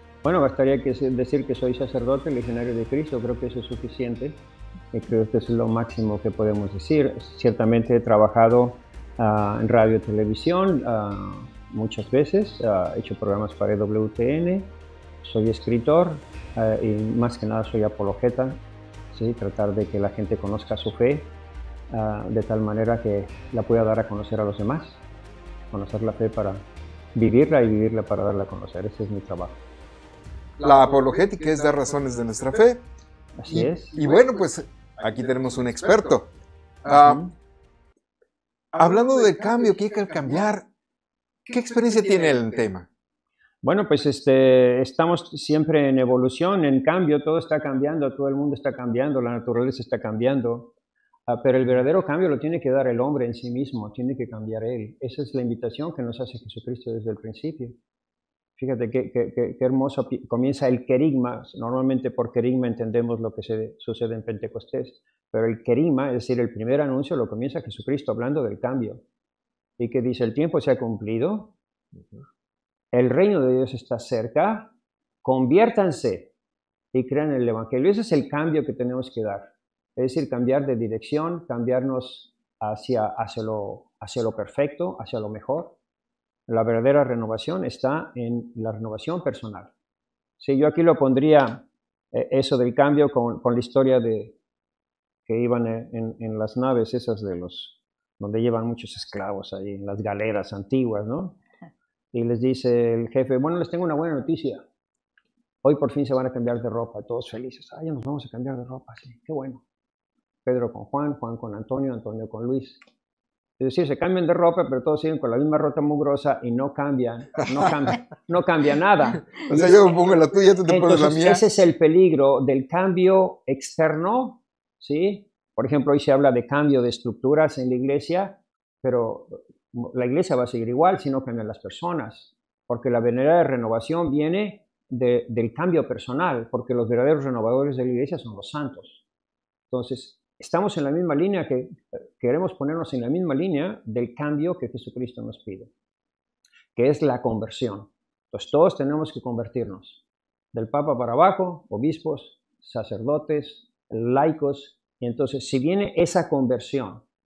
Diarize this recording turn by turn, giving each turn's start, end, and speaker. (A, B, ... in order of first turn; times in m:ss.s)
0:00.2-0:04.4 A
0:04.9-0:18.6 A
0:19.1-0:21.3 A
0:21.9-0:25.0 A
0:25.7-0:29.6 A
0:30.6-0:32.9 B
0:33.4-0:34.0 A
0:33.5-0:36.3 B
0:36.8-0:37.3 B
0:36.9-0:37.3 A
0:38.7-0:40.7 B
0:41.4-0:42.9 B
0:43.6-0:50.7 A
0:51.3-0:57.8 A
0:58.6-1:09.0 A
1:09.8-1:11.5 A
1:12.9-1:14.7 A
1:15.2-1:16.3 A
1:16.9-1:25.8 A
1:26.5-1:29.7 A
1:30.4-1:34.4 A
1:35.3-1:41.4 A
1:42.1-1:44.6 A
1:45.6-1:49.6 A
1:50.4-1:52.8 A
1:53.6-1:59.5 A
1:59.4-2:01.4 B
2:00.7-2:19.0 A
2:19.7-2:25.7 A
2:26.8-2:30.0 A
2:30.5-2:37.0 A